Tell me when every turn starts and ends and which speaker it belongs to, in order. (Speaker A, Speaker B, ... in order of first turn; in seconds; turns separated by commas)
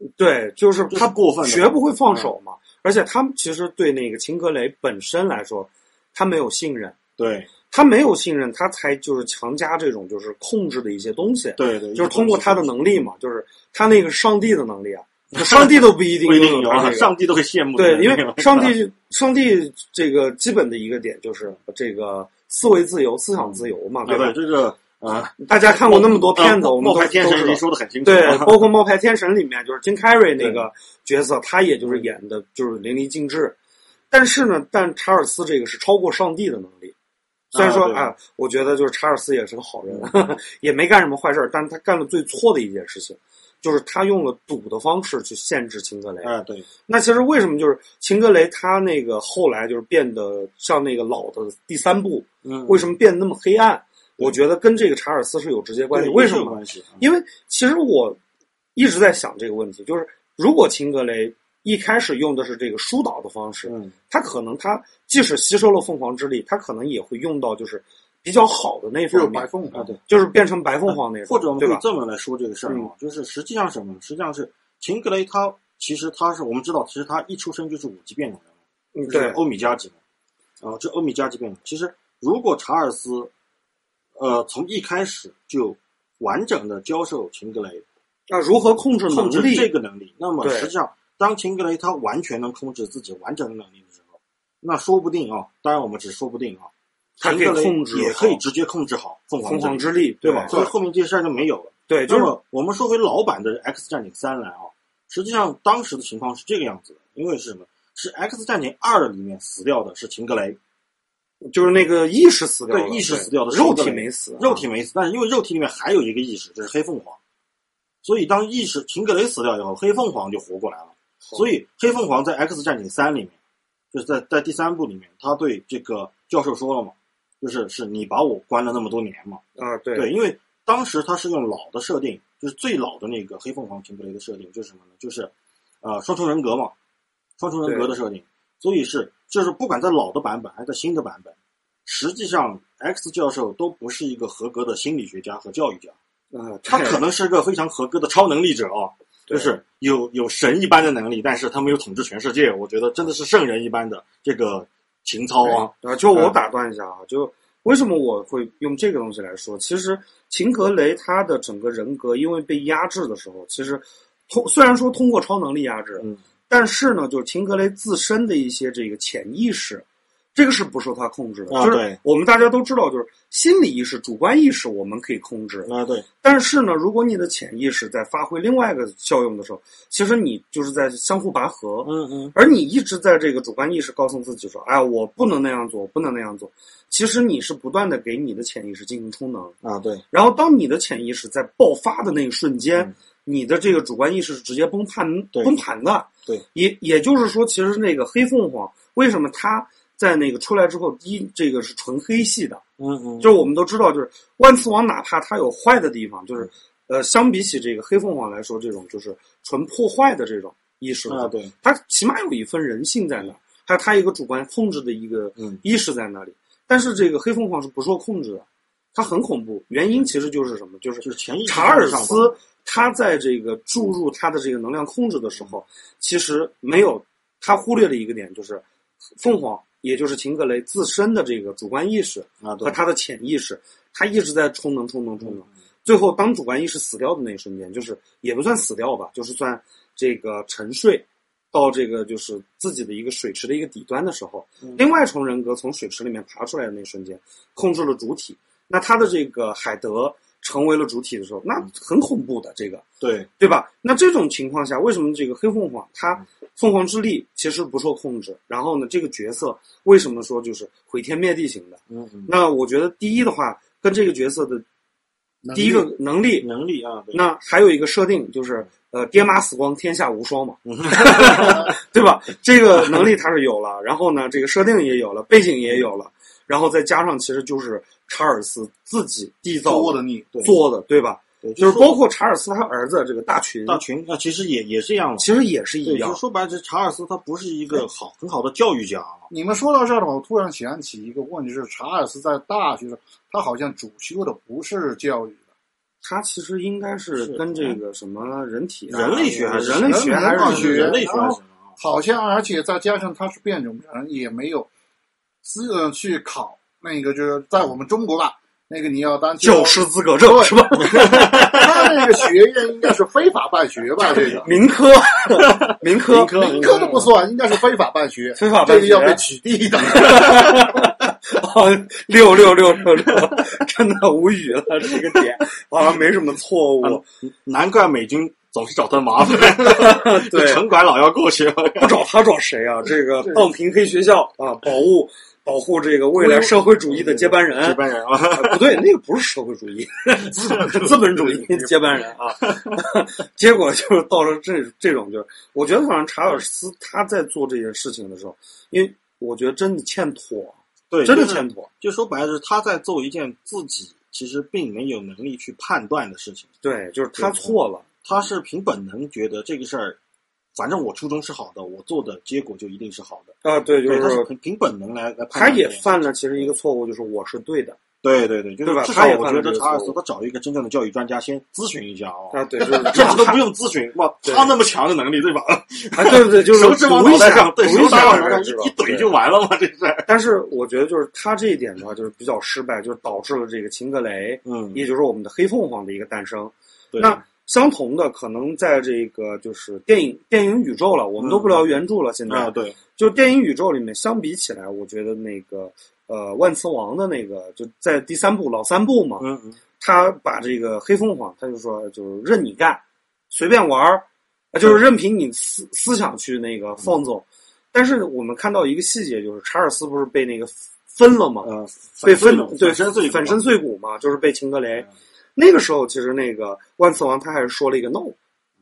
Speaker A: 0.2-7.0, Speaker B: 0.9-2.3, Speaker B: 7.2-7.5, Speaker A: 7.7-17.1, Speaker B: 11.6-12.8, Speaker B: 15.3-18.8, Speaker A: 17.8-24.4, Speaker B: 23.4-28.7, Speaker A: 25.4-33.5, Speaker B: 30.4-30.6, Speaker B: 31.8-32.1, Speaker A: 34.1-36.9, Speaker B: 37.5-38.1, Speaker A: 37.5-46.3, Speaker B: 39.9-40.1, Speaker B: 46.2-46.7, Speaker A: 46.9-58.2, Speaker B: 52.4-52.9, Speaker B: 55.9-57.0, Speaker A: 58.7-69.5, Speaker B: 63.7-63.9, Speaker C: 69.1-69.9, Speaker B: 69.7-70.0, Speaker A: 70.1-71.8, Speaker B: 70.9-78.5, Speaker A: 78.9-79.4, Speaker B: 79.0-80.0, Speaker B: 80.6-83.3, Speaker B: 84.2-87.8, Speaker A: 88.3-89.7, Speaker B: 89.1-110.6, Speaker A: 90.4-90.7, Speaker A: 97.2-98.4, Speaker A: 99.4-100.7, Speaker A: 101.9-102.3, Speaker A: 111.5-114.6, Speaker B: 112.7-117.2, Speaker B: 118.0-123.3, Speaker B: 123.9-129.4, Speaker A: 129.6-130.1, Speaker B: 129.9-136.7, Speaker B: 137.4-145.9, Speaker A: 137.6-137.9, Speaker A: 146.3-147.0, Speaker B: 146.6-156.3, Speaker A: 149.3-149.6, Speaker A: 155.4-175.7, Speaker B: 171.5-172.0, Speaker B: 175.6-176.1, Speaker A: 176.2-189.6, Speaker B: 181.8-182.3, Speaker B: 189.6-190.0, Speaker A: 190.1-202.6, Speaker B: 202.8-203.5, Speaker A: 203.2-228.6, Speaker B: 211.1-211.5, Speaker B: 221.0-222.4, Speaker A: 229.2-252.8, Speaker B: 232.4-232.8, Speaker B: 253.0-253.3, Speaker A: 253.4-264.6, Speaker B: 261.9-262.3, Speaker A: 265.5-266.5, Speaker B: 266.4-267.2, Speaker A: 267.1-283.8, Speaker B: 270.6-271.7, Speaker C: 279.6-280.3, Speaker B: 280.3-280.6, Speaker B: 281.4-281.9, Speaker B: 283.6-285.3, Speaker A: 285.2-286.2, Speaker B: 285.8-289.3, Speaker C: 289.3-295.4, Speaker A: 296.0-301.0, Speaker B: 297.2-297.8, Speaker B: 298.9-301.6, Speaker C: 299.8-304.7, Speaker C: 305.4-310.6, Speaker A: 309.4-312.1, Speaker B: 310.8-311.6, Speaker C: 311.2-314.5, Speaker B: 314.0-314.5, Speaker A: 314.4-317.0, Speaker B: 315.4-317.1, Speaker C: 316.4-320.7, Speaker A: 318.4-319.2, Speaker A: 319.8-327.0, Speaker B: 324.9-325.4, Speaker B: 326.8-332.0, Speaker A: 329.3-330.6, Speaker A: 331.8-351.7, Speaker B: 336.1-338.8, Speaker B: 340.2-341.8, Speaker B: 342.4-342.7, Speaker B: 350.9-356.5, Speaker A: 356.6-357.9, Speaker B: 357.2-360.0, Speaker B: 360.5-366.5, Speaker A: 363.4-364.3, Speaker A: 365.3-367.8, Speaker B: 368.0-380.1, Speaker A: 368.6-370.0, Speaker A: 372.3-373.4, Speaker A: 374.2-374.5, Speaker A: 375.9-379.1, Speaker A: 380.1-399.2, Speaker B: 384.4-384.8, Speaker B: 386.9-387.2, Speaker B: 391.2-391.6, Speaker B: 392.3-392.8, Speaker B: 399.2-399.6, Speaker A: 399.8-418.1, Speaker B: 411.4-413.4